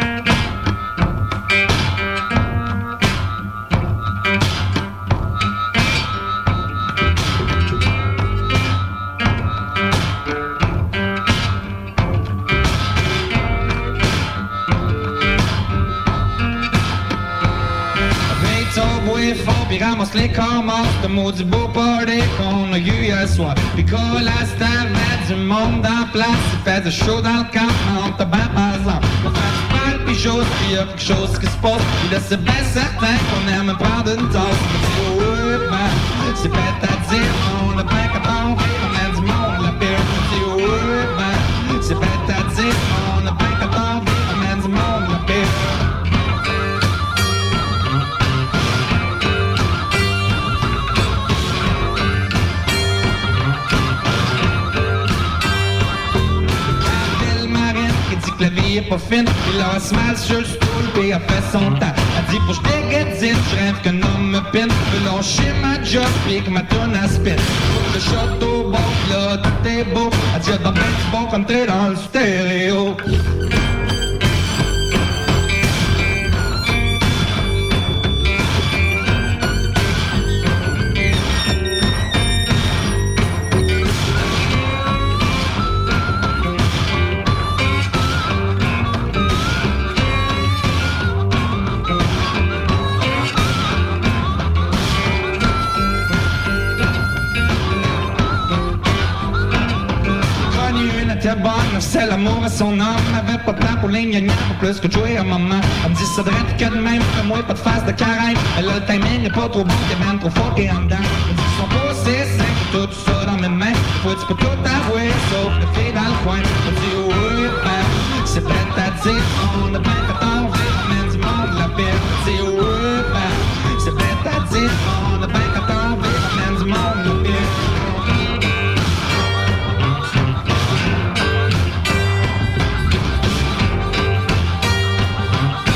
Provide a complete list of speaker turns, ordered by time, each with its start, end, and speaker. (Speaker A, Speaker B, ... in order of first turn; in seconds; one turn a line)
Speaker A: 18.3-45.8
Speaker A: 56.8-73.0
Speaker A: 100.4-128.1